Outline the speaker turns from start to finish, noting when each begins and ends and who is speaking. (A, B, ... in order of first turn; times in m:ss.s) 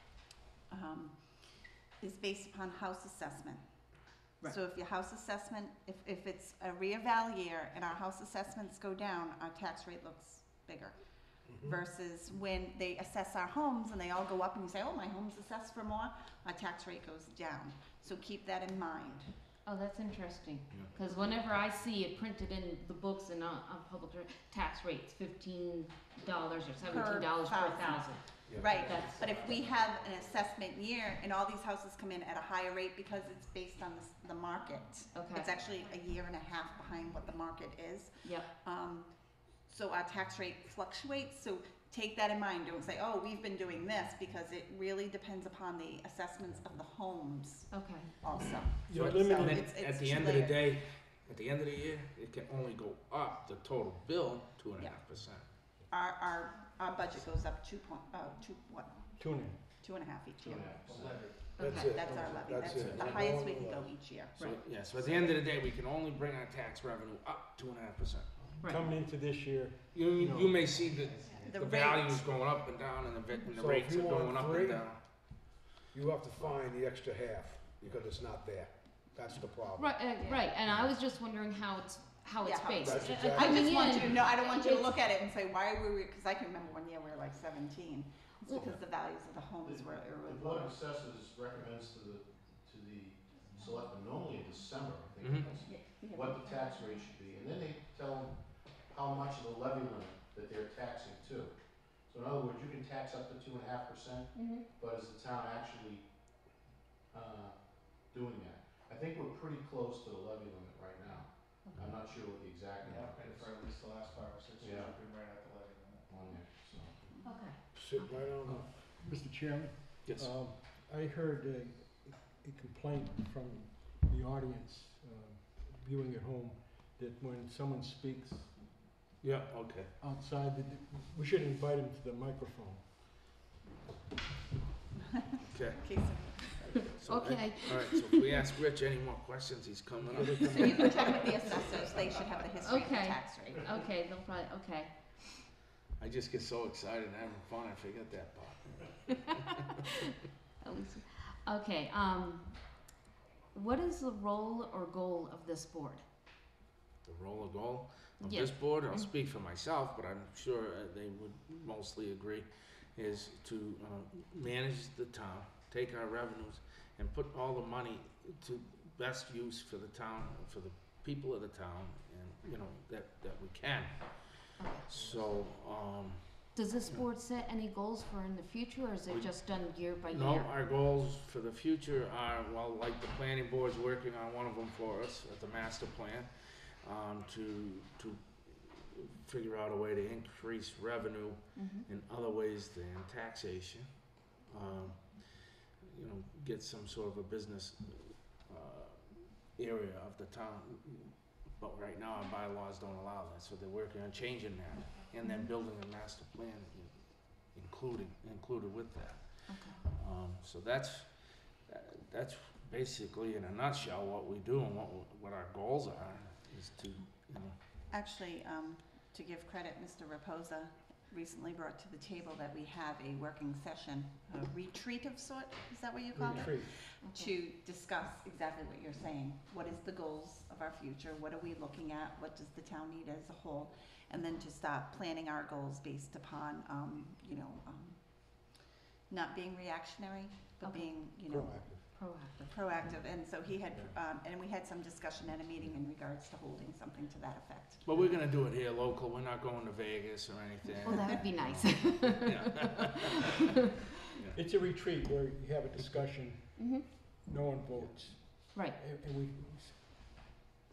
0:00.7-0:01.4 A
0:02.0-0:03.6 A
0:04.4-0:19.3 A
0:19.6-0:29.4 B
0:26.9-0:39.1 A
0:28.5-0:30.6 C
0:35.1-0:35.5 B
0:39.6-0:50.8 A
0:47.7-0:48.1 B
0:48.8-0:49.7 D
0:48.9-0:55.5 E
0:55.9-0:59.0 A
0:59.2-0:59.7 D
0:59.8-1:00.8 A
1:00.4-1:00.8 D
1:00.4-1:01.2 F
1:00.8-1:02.5 C
1:01.6-1:04.0 G
1:01.6-1:01.9 B
1:01.7-1:05.4 A
1:02.7-1:03.2 E
1:04.4-1:08.3 E
1:08.6-1:11.0 D
1:09.9-1:15.0 E
1:11.3-1:12.2 A
1:13.5-1:15.0 G
1:15.9-1:20.0 G
1:19.8-1:25.0 B
1:20.2-1:20.5 A
1:22.4-1:30.8 A
1:22.8-1:23.7 G
1:28.4-1:28.8 B
1:29.6-1:38.4 F
1:35.2-1:35.6 E
1:35.6-1:36.6 A
1:38.9-1:41.6 F
1:42.1-1:46.0 F
1:44.3-1:44.6 B
1:47.1-1:47.5 F
1:48.1-1:53.5 F
1:51.6-1:51.9 B
1:52.8-1:56.0 C
1:54.6-1:55.0 F
1:56.1-1:57.0 F
1:57.1-1:57.4 A
1:57.2-1:58.1 B
1:57.7-1:58.7 G
1:58.4-2:08.9 D
2:00.0-2:00.3 E
2:09.2-2:09.9 E
2:10.0-2:13.3 D
2:15.2-2:16.9 A
2:15.4-2:15.9 E
2:16.8-2:21.2 E
2:17.0-2:18.3 B
2:20.0-2:21.4 D
2:20.4-2:23.6 A
2:22.6-2:25.4 B
2:26.0-2:29.4 E
2:30.6-2:32.8 B
2:33.5-2:36.0 B
2:37.0-2:57.1 E
2:38.2-2:39.1 B
2:54.6-2:54.9 B
2:54.9-2:55.4 D
2:56.5-3:00.5 B
2:59.1-3:37.6 E
3:11.5-3:11.9 B
3:29.5-3:29.8 B
3:37.9-4:07.9 A
3:46.1-3:46.8 D
3:47.0-3:47.3 B
4:00.6-4:01.0 B
4:01.3-4:02.0 D
4:01.9-4:02.5 B
4:07.8-4:13.1 E
4:10.8-4:12.7 B
4:14.1-4:14.6 E
4:14.3-4:20.4 D
4:15.8-4:16.0 E
4:16.6-4:16.9 B